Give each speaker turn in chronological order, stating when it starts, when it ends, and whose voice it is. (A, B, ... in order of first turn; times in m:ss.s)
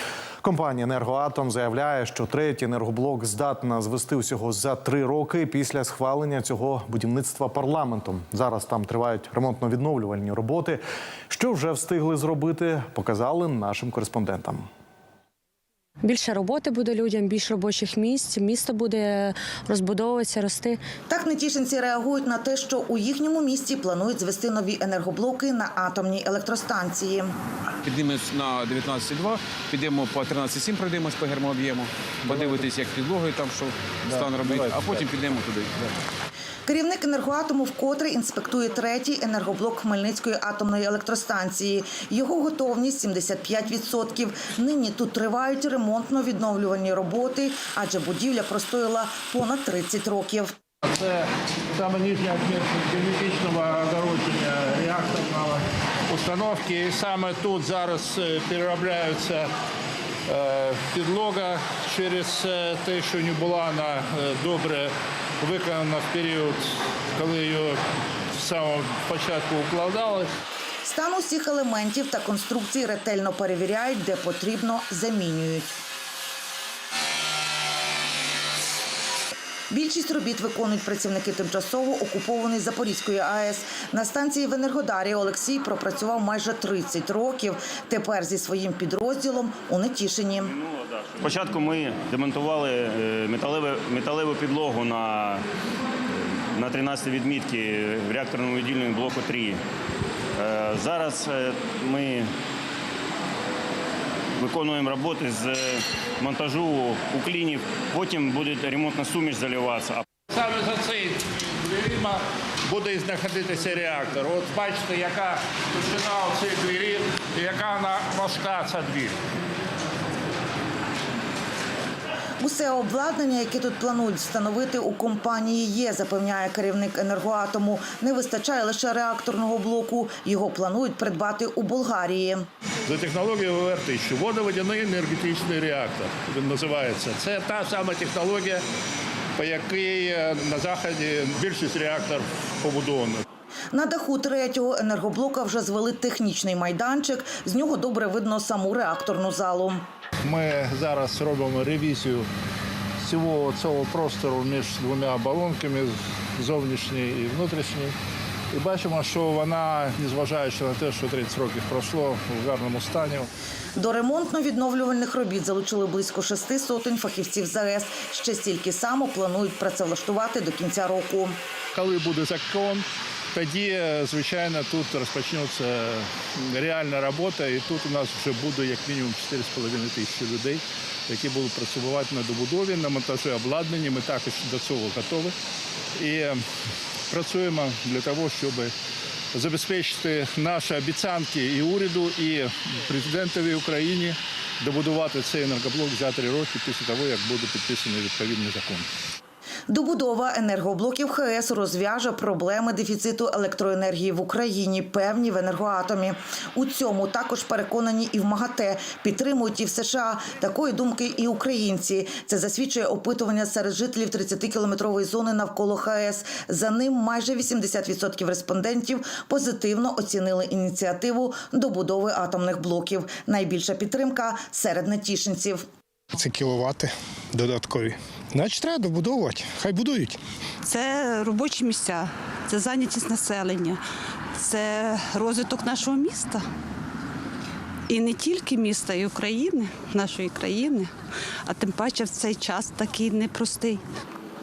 0:00.4-0:14.6 A
0:16.0-0:20.8 B
0:21.1-0:27.3 C
0:27.8-0:35.9 D
0:32.3-0:32.6 E
0:34.1-0:34.8 E
0:36.6-0:50.5 C
0:50.8-0:59.5 E
1:00.3-1:07.8 E
1:08.3-1:10.3 E
1:10.8-1:15.8 C
1:19.7-1:30.5 C
1:30.4-1:35.4 F
1:36.5-1:39.6 F
1:40.4-1:42.3 F
1:44.4-1:50.0 F
1:50.3-1:59.2 E
2:02.4-2:12.4 C
2:12.9-2:18.6 E
2:19.4-2:23.2 E
2:23.7-2:29.8 C
2:30.2-2:32.3 E
2:33.0-2:38.0 E
2:38.5-2:43.3 E
2:43.8-2:51.4 C
2:51.7-3:05.3 E
3:06.0-3:06.4 E
3:07.1-3:08.7 E
3:09.3-3:18.9 E
3:19.7-3:45.6 C
3:46.1-3:50.2 G
3:50.6-3:53.8 H
3:54.4-3:56.4 H
3:57.9-4:00.9 H
4:01.4-4:03.8 H